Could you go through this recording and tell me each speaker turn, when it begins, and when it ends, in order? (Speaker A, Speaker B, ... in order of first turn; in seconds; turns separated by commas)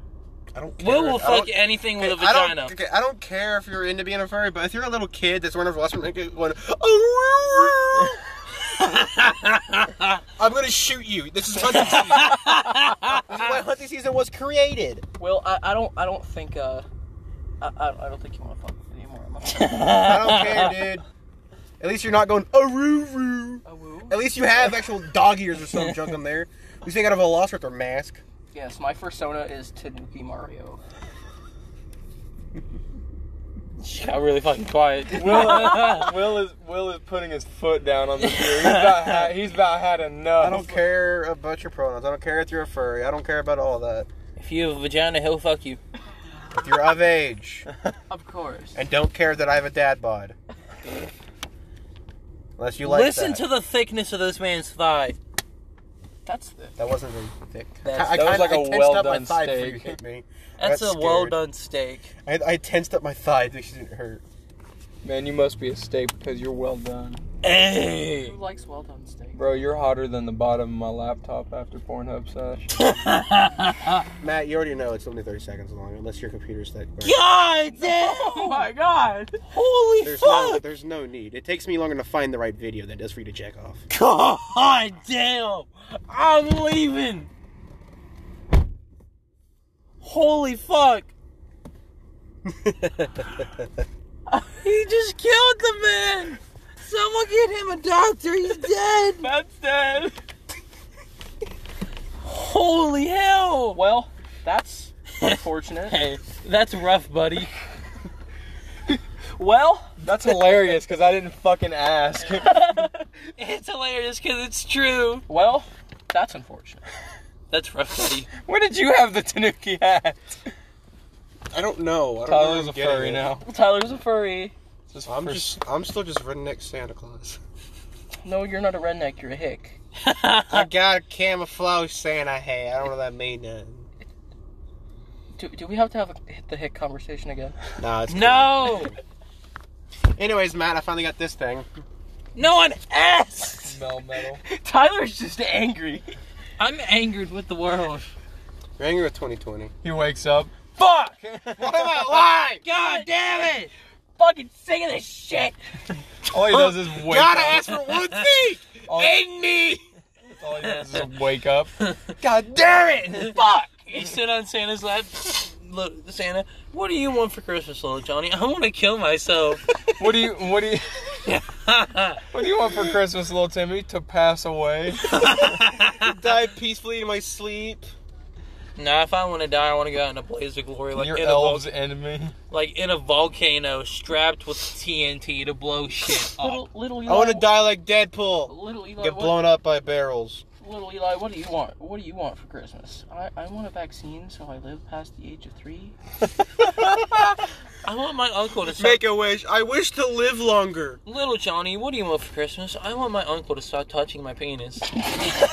Speaker A: 0.5-8.2, Speaker B: 0.8-2.7, Speaker B: 8.8-10.2, Speaker A: 10.4-15.0, Speaker B: 11.7-13.2, Speaker C: 15.2-16.9, Speaker C: 17.6-20.2, Speaker B: 19.5-20.7, Speaker A: 20.0-21.0, Speaker A: 21.8-28.2, Speaker C: 23.6-24.3, Speaker C: 28.5-30.8, Speaker B: 33.8-36.1, Speaker D: 35.1-40.8, Speaker B: 38.2-39.3, Speaker A: 40.4-44.1, Speaker B: 44.4-45.8, Speaker A: 46.5-47.7, Speaker C: 48.1-48.8, Speaker A: 48.7-50.4, Speaker A: 52.6-53.4, Speaker B: 52.8-55.2, Speaker C: 56.2-56.8, Speaker A: 56.8-61.4, Speaker B: 57.8-58.7, Speaker D: 58.1-60.0, Speaker B: 60.6-62.1, Speaker A: 62.2-64.2, Speaker D: 65.0-67.2, Speaker B: 67.4-68.3, Speaker C: 68.1-69.7, Speaker D: 69.3-72.7, Speaker B: 72.8-74.0, Speaker A: 74.2-77.2, Speaker B: 77.0-78.6, Speaker C: 77.8-79.4, Speaker B: 79.5-80.6, Speaker A: 80.0-83.8, Speaker B: 83.9-87.3, Speaker B: 90.0-91.1, Speaker A: 92.5-93.5, Speaker B: 94.5-99.3, Speaker C: 99.2-100.2, Speaker B: 102.2-103.8, Speaker C: 103.7-106.0, Speaker B: 105.2-107.5, Speaker C: 109.3-110.0, Speaker D: 110.0-112.9, Speaker C: 112.3-113.1, Speaker B: 113.4-115.2, Speaker C: 115.3-116.8, Speaker B: 117.5-118.3, Speaker D: 118.4-120.3, Speaker A: 121.5-123.3, Speaker D: 122.2-123.5, Speaker C: 123.4-124.5, Speaker D: 124.9-125.6, Speaker A: 125.1-127.4, Speaker C: 128.2-129.8, Speaker B: 130.0-130.7, Speaker A: 130.5-133.9, Speaker C: 135.3-137.6, Speaker A: 137.8-139.0, Speaker B: 138.1-138.9, Speaker A: 140.1-141.7, Speaker B: 142.3-143.8, Speaker D: 143.6-144.4, Speaker C: 144.4-146.1, Speaker B: 146.6-148.1, Speaker A: 148.8-149.7, Speaker D: 149.8-150.5, Speaker B: 150.8-151.1, Speaker D: 151.2-152.1, Speaker A: 151.6-152.6, Speaker B: 152.6-153.7, Speaker C: 152.7-153.1, Speaker C: 154.2-155.5, Speaker D: 156.3-157.8, Speaker A: 156.4-159.8, Speaker D: 158.9-159.2, Speaker D: 160.3-163.4, Speaker B: 160.7-161.0, Speaker C: 163.3-164.1, Speaker B: 163.9-169.6, Speaker D: 170.0-171.2, Speaker B: 171.2-172.2, Speaker D: 172.3-175.6, Speaker B: 175.1-176.1, Speaker A: 175.9-177.9, Speaker B: 178.8-181.7, Speaker D: 180.9-182.3, Speaker B: 182.5-186.6, Speaker C: 186.4-187.7, Speaker A: 187.1-190.4, Speaker C: 188.5-189.5, Speaker C: 190.6-195.9, Speaker B: 197.8-199.0, Speaker A: 198.8-201.0, Speaker B: 201.1-205.0